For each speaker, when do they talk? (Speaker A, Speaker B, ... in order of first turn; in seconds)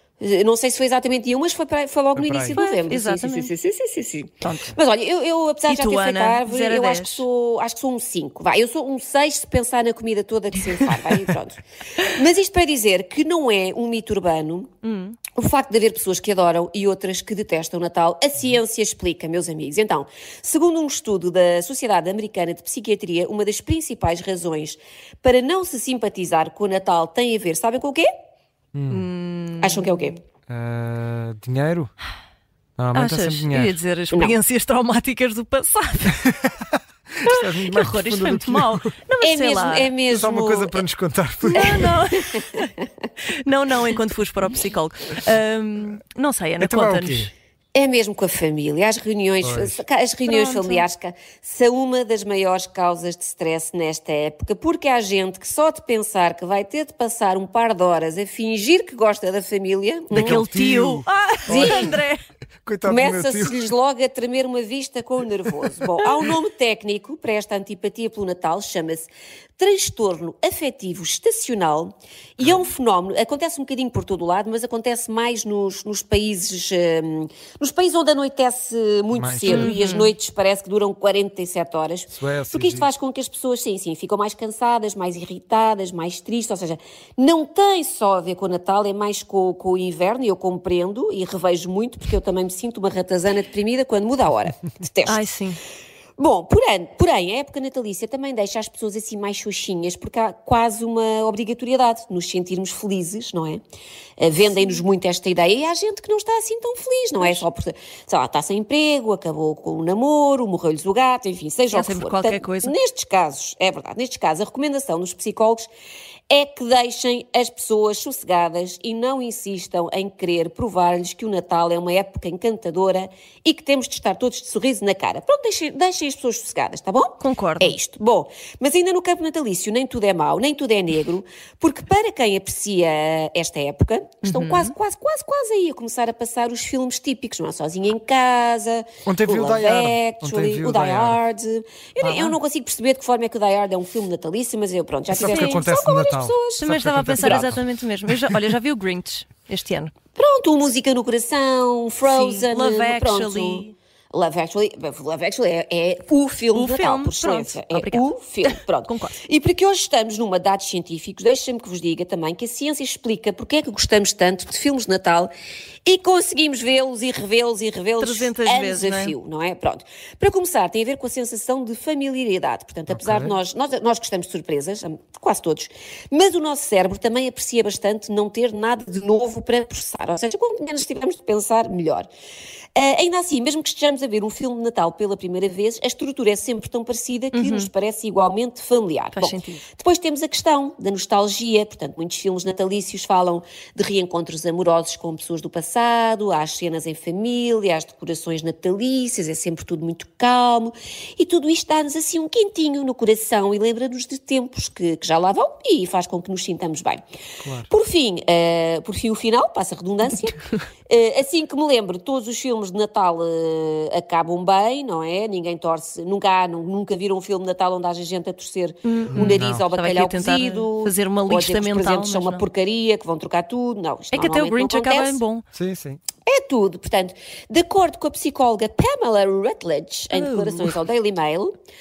Speaker A: 0.2-14.7, 15.3-28.1, 29.6-30.2, 34.1-34.4, 39.2-40.8, 41.5-42.0, 47.7-60.5, 61.5-62.0, 62.8-95.3, 96.2-103.6, 104.2-115.7, 116.3-147.5, 150.2-165.3, 165.8-182.1, 182.7-207.0, 207.7-225.2, 226.2-231.5
Speaker B: 2.1-2.6, 28.7-29.1, 30.5-31.9, 32.8-33.8, 36.2-38.9, 40.1-41.9, 46.6-47.3, 49.4-49.8, 60.1-62.0, 62.6-63.6, 79.1-79.7, 82.1-82.9, 139.1-141.2, 145.1-147.6, 172.9-173.3, 207.4-207.7, 219.1-219.7, 225.5-226.0
Speaker C: 2.5-3.5, 4.4-4.8, 5.7-7.2, 14.8-15.2, 28.9-30.1, 32.9-36.2, 37.2-39.9, 41.5-42.7, 43.2-47.3, 50.2-50.9, 60.1-62.2, 79.4-80.1, 95.0-95.6, 111.7-112.8, 127.2-127.8, 134.2-134.7, 142.0-142.4, 145.2-145.7, 146.6-149.9, 152.1-153.7, 156.5-159.2, 168.0-169.1, 187.3-187.7, 189.1-189.6, 218.8-222.4, 224.1-225.4, 230.1-230.8